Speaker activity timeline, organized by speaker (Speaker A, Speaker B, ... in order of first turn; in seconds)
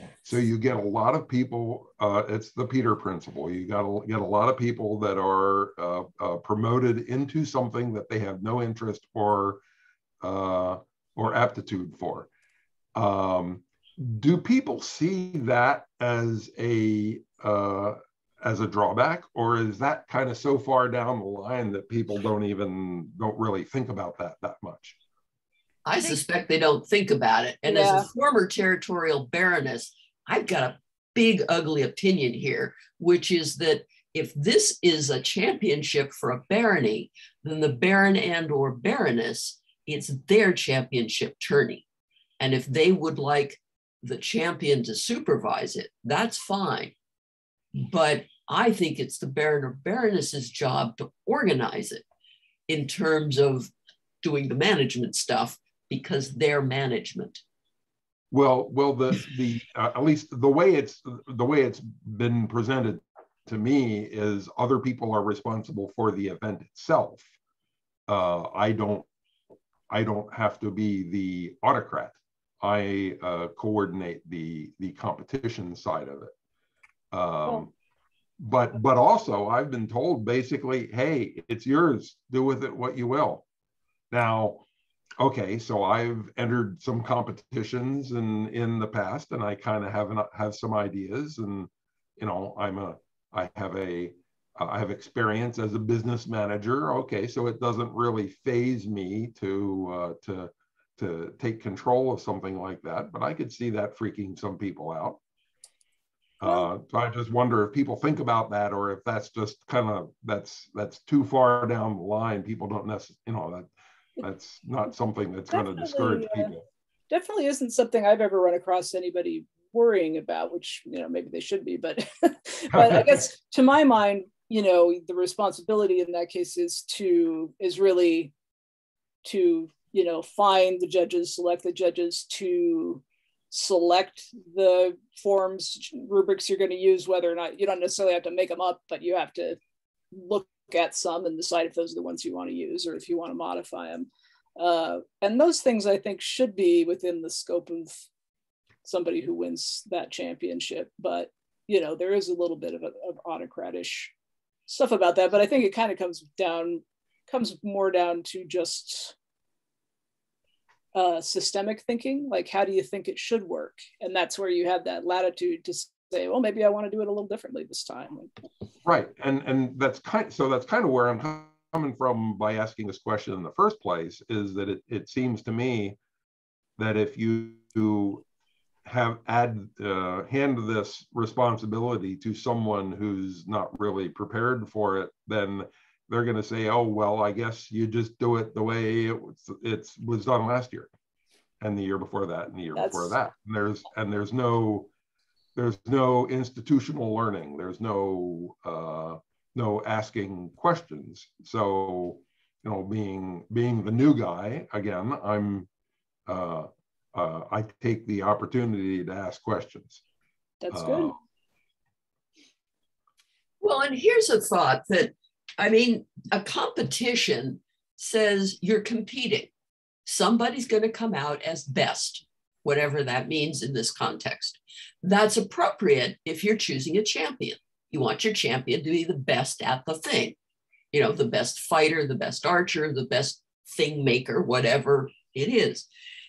Speaker A: 0.2-9.6, 10.2-12.3, 12.9-25.0, 58.3-67.3, 68.1-69.1, 69.9-76.3, 77.1-77.7, 78.4-83.5, 84.1-84.6, 85.2-105.2, 106.4-113.7, 114.2-116.6, 122.7-123.2, 168.8-176.0, 176.8-178.2, 178.8-190.9, 191.6-194.9, 195.6-205.7, 206.3-210.0, 210.7-211.2
Speaker B: 25.9-41.9, 42.4-46.9, 47.8-52.0, 52.7-57.4, 213.6-219.5, 220.1-230.4, 230.9-235.9
Speaker C: 27.7-28.1, 115.5-116.5, 117.1-128.3, 129.2-139.6, 140.1-148.1, 148.8-154.1, 154.7-159.1, 160.9-168.3, 192.8-193.2, 210.6-211.1